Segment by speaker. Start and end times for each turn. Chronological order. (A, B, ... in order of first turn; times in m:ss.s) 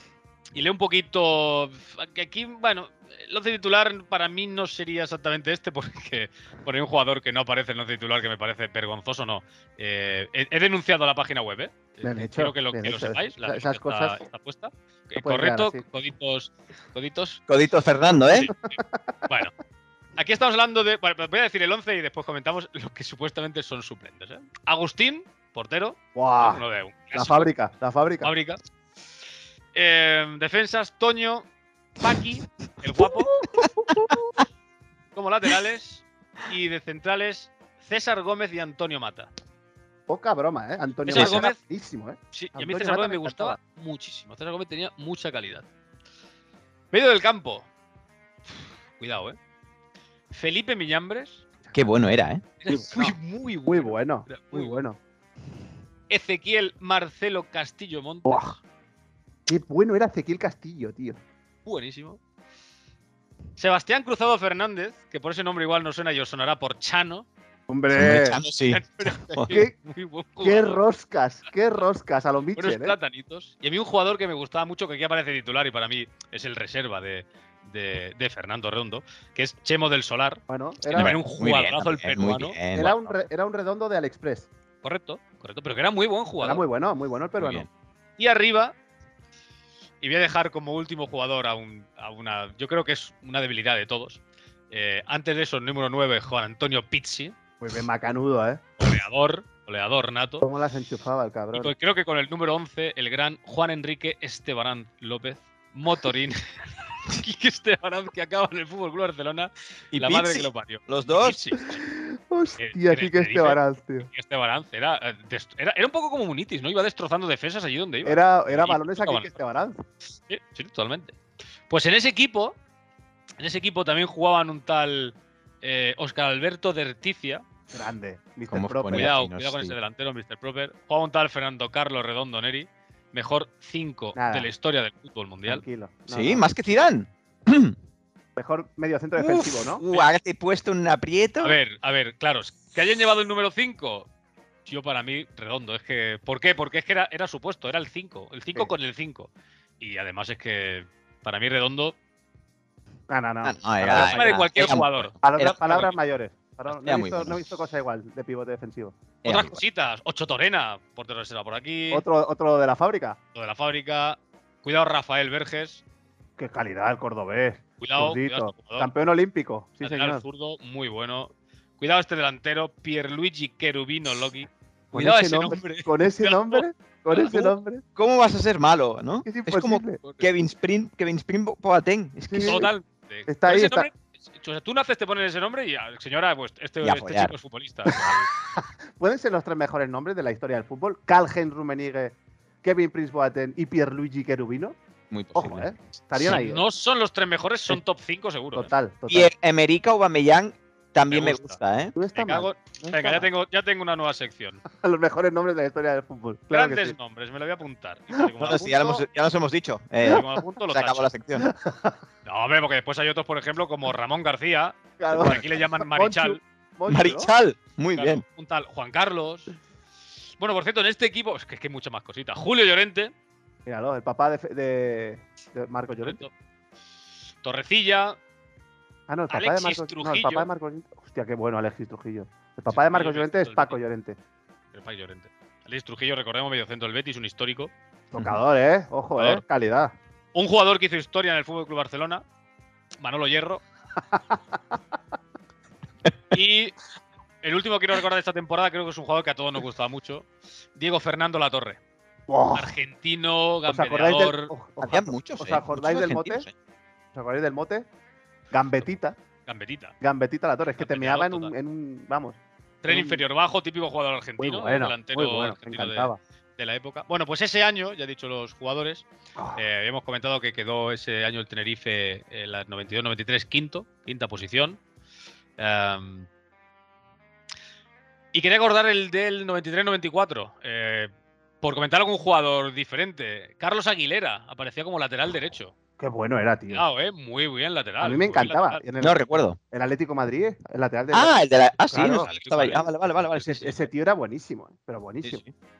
0:00.5-0:17.4 A
0:12.0-0:14.2 B
0:15.2-0:15.8 B
0:17.5-0:18.5 C
0:18.7-0:19.0 B
0:20.2-0:27.5 A
0:26.2-0:26.6 B
0:27.1-0:28.3 B
0:28.2-0:28.6 A
0:29.7-0:31.4 A
0:32.0-0:33.4 A
0:33.6-0:34.0 C
0:33.6-0:34.1 B
0:35.1-0:39.3 A
0:40.1-0:43.6 B
0:41.1-0:41.6 A
0:41.1-0:41.4 C
0:42.3-0:45.6 A
0:46.9-0:47.6 A
0:48.5-0:49.4 A
0:50.3-0:51.4 A
0:51.7-0:52.4 C
0:52.6-0:54.8 A
0:52.7-0:55.0 B
0:56.1-0:58.6 A
0:58.2-0:58.5 B
0:59.5-1:01.2 B
1:01.6-1:02.2 A
1:03.6-1:07.3 A
1:07.7-1:08.4 B
1:07.9-1:09.6 C
1:08.7-1:10.8 A
1:09.5-1:09.7 B
1:10.4-1:13.0 B
1:12.6-1:23.1 A
1:20.5-1:21.2 B
1:20.9-1:23.0 C
1:22.7-1:24.5 B
1:24.8-1:26.6 A
1:26.4-1:27.7 B
1:27.4-1:27.7 C
1:28.2-1:28.7 A
1:30.0-1:37.3 A
1:37.6-1:38.6 B
1:38.8-1:40.4 A
1:40.4-1:41.7 B
1:41.5-1:51.8 A
1:49.9-1:51.4 C
1:51.8-1:54.1 B
1:52.6-1:59.4 A
1:58.0-1:59.8 B
2:00.3-2:01.2 A
2:01.7-2:02.6 A
2:03.4-2:07.4 A
2:07.7-2:09.1 B
2:08.5-2:09.8 C
2:08.9-2:15.6 A
2:14.1-2:14.5 B
2:15.5-2:16.4 B
2:16.1-2:17.8 C
2:18.4-2:19.8 B
2:19.2-2:21.6 C
2:21.4-2:24.1 A
2:24.6-2:32.0 A
2:33.1-2:34.2 B
2:33.4-2:35.6 C
2:33.9-2:35.9 A
2:35.2-2:39.0 B
2:36.7-2:37.4 C
2:39.2-2:39.6 C
2:39.2-2:42.0 A
2:41.9-2:43.2 B
2:43.3-2:45.8 A
2:46.4-2:50.2 B
2:47.8-2:48.9 A
2:49.8-2:57.4 A
2:54.9-2:57.8 B
2:58.0-3:02.7 C
2:59.2-3:00.0 B
3:00.0-3:00.3 A
3:02.3-3:02.7 B
3:02.4-3:08.3 A
3:03.3-3:03.9 B
3:06.8-3:07.3 C
3:09.0-3:14.8 B
3:15.1-3:16.4 C
3:15.3-3:16.6 B
3:16.2-3:18.7 A
3:18.5-3:19.3 B
3:19.1-3:21.9 C
3:21.1-3:21.6 A
3:21.9-3:23.3 B
3:22.2-3:24.6 A
3:24.7-3:27.0 B
3:26.5-3:29.0 A
3:28.4-3:31.5 C
3:30.0-3:31.1 A
3:31.4-3:32.0 B
3:32.2-3:36.4 A
3:35.0-3:37.3 B
3:35.2-3:35.4 C
3:36.9-3:38.2 C
3:37.9-3:39.5 A
3:40.4-3:43.1 A
3:43.6-3:46.2 B
3:46.0-3:46.3 A
3:47.4-3:48.2 A
3:49.1-3:54.2 B
3:49.3-3:50.5 A
3:52.7-3:53.8 A
3:54.7-3:57.7 A
3:58.1-3:59.9 B
3:59.2-3:59.4 A
4:00.3-4:02.2 A
4:03.0-4:03.6 A
4:06.3-4:06.8 A
4:07.4-4:11.8 A
4:12.3-4:12.7 B
4:12.5-4:14.5 A
4:13.7-4:16.4 B
4:14.8-4:16.5 C
4:17.1-4:17.8 B
4:18.5-4:19.2 B
4:19.4-4:19.9 A
4:20.0-4:23.2 B
4:20.8-4:21.5 A
4:22.8-4:34.8 A
4:24.4-4:26.2 B
4:29.4-4:29.6 B
4:35.6-4:36.3 A
4:38.3-4:41.1 A
4:41.6-4:45.7 A
4:46.0-4:46.8 B
4:46.7-4:48.8 A
4:48.0-4:51.4 B
4:49.0-4:49.6 C
4:51.1-4:53.7 C
4:51.9-4:52.3 B
4:51.9-4:52.9 A
4:53.4-4:55.4 B
4:55.2-4:55.5 C